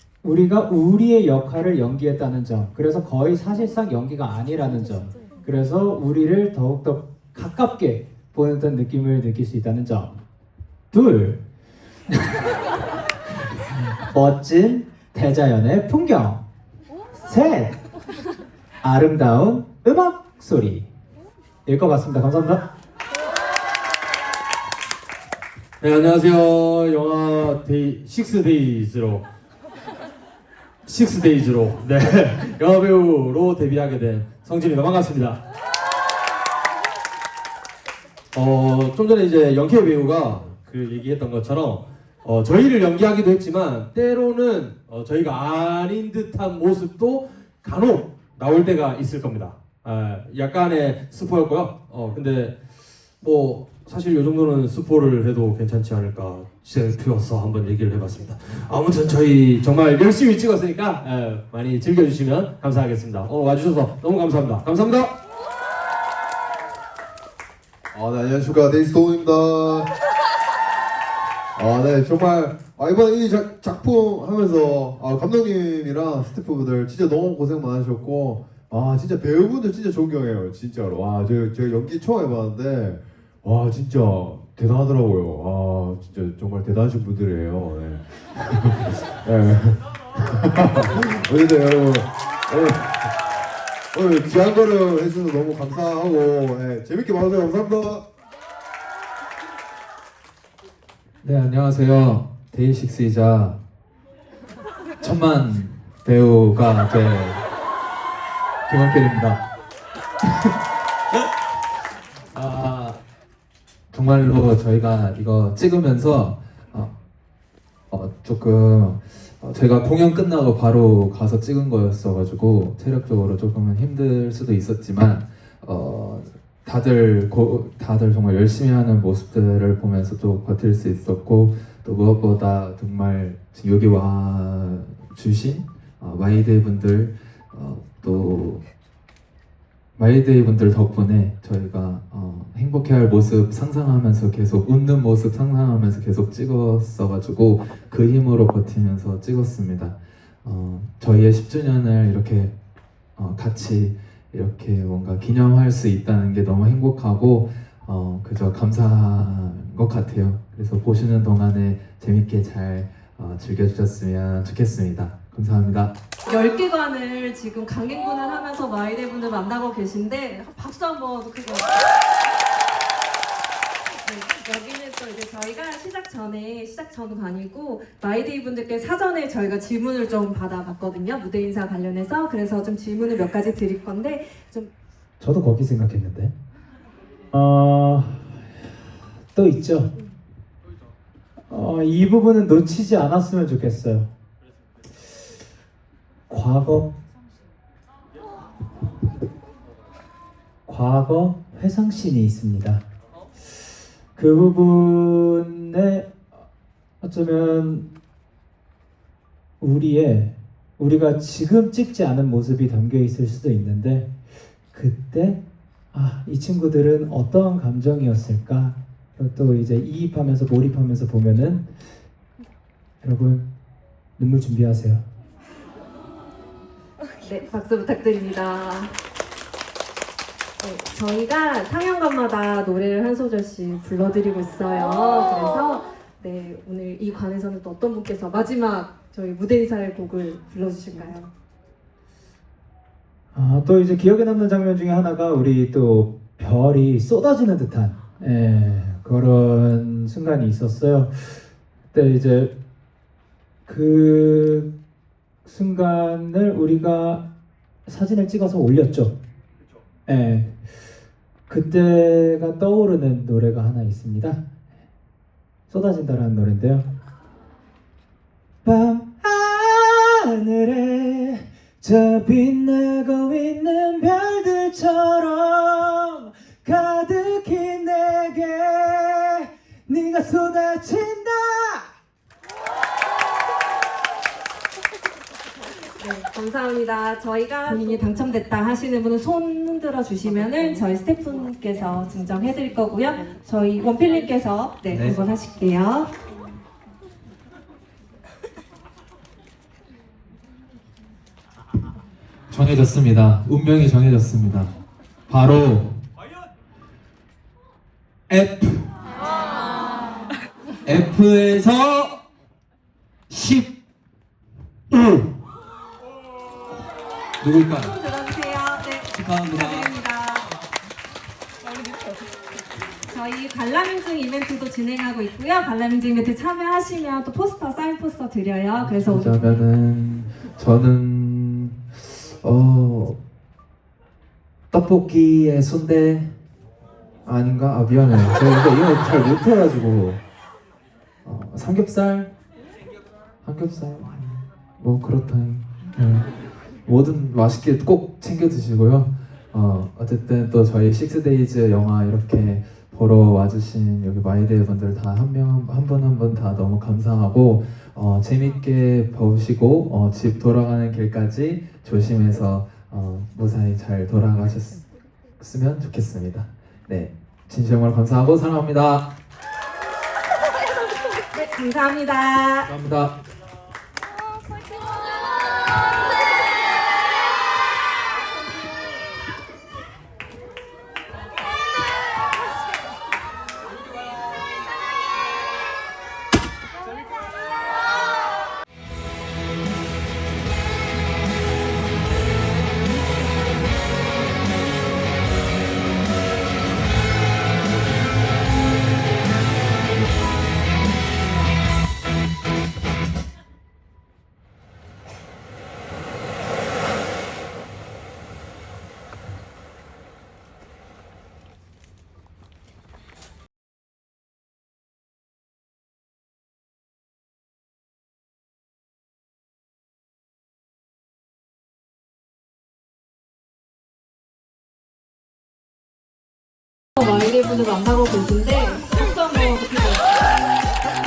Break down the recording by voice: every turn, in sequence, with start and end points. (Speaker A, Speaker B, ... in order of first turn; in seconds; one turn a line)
Speaker A: 0.2-10.2
Speaker A: 10.9-11.4
Speaker A: 13.9-16.5
Speaker A: 17.2-17.8
Speaker A: 18.8-20.9
Speaker A: 21.7-22.6
Speaker B: 25.8-29.2
Speaker B: 30.9-35.4
Speaker B: 38.3-52.5
Speaker B: 53.2-65.1
Speaker C: 67.9-69.9
Speaker C: 71.6-93.1
Speaker C: 93.9-98.0
Speaker D: 101.2-103.6
Speaker D: 105.0-107.4
Speaker D: 108.7-109.4
Speaker D: 112.3-113.0
Speaker D: 113.9-116.9
Speaker D: 117.9-138.7
Speaker D: 140.0-152.5
Speaker D: 153.2-166.0
Speaker E: 166.3-171.9
Speaker E: 174.0-184.7
Speaker A: 185.2-186.3
Speaker A: 187.3-188.5
Speaker A: 189.3-189.9
Speaker A: 191.5-194.1
Speaker A: 196.3-196.9
Speaker A: 200.7-202.8
Speaker A: 204.2-206.2
Speaker A: 207.0-207.9
Speaker A: 209.6-214.1
Speaker A: 214.7-215.4
Speaker A: 215.9-221.7
Speaker A: 223.0-223.5
Speaker A: 224.2-225.0
Speaker E: 227.2-229.0
Speaker E: 230.6-241.3
Speaker A: 243.3-252.5
Speaker A: 253.7-254.7
Speaker A: 255.4-257.2
Speaker A: 257.9-259.2
Speaker A: 260.1-260.6
Speaker A: 261.5-264.4
Speaker A: 265.7-266.9
Speaker A: 268.6-281.9
Speaker E: 286.0-296.1
Speaker D: 294.9-295.2
Speaker D: 302.5-304.7
Speaker D: 305.3-306.0
Speaker D: 308.3-308.9
Speaker D: 310.9-312.2
Speaker D: 313.3-313.7
Speaker D: 314.9-315.3
Speaker D: 317.4-318.0
Speaker E: 317.9-320.5
Speaker D: 319.1-319.9
Speaker E: 323.1-329.6
Speaker D: 328.8-333.2
Speaker D: 334.7-336.4
Speaker D: 337.2-340.2
Speaker D: 341.2-342.3
Speaker D: 343.4-346.3
Speaker D: 346.9-364.9
Speaker D: 365.4-369.1
Speaker E: 371.3-372.7
Speaker D: 372.7-373.1
Speaker E: 427.0-430.3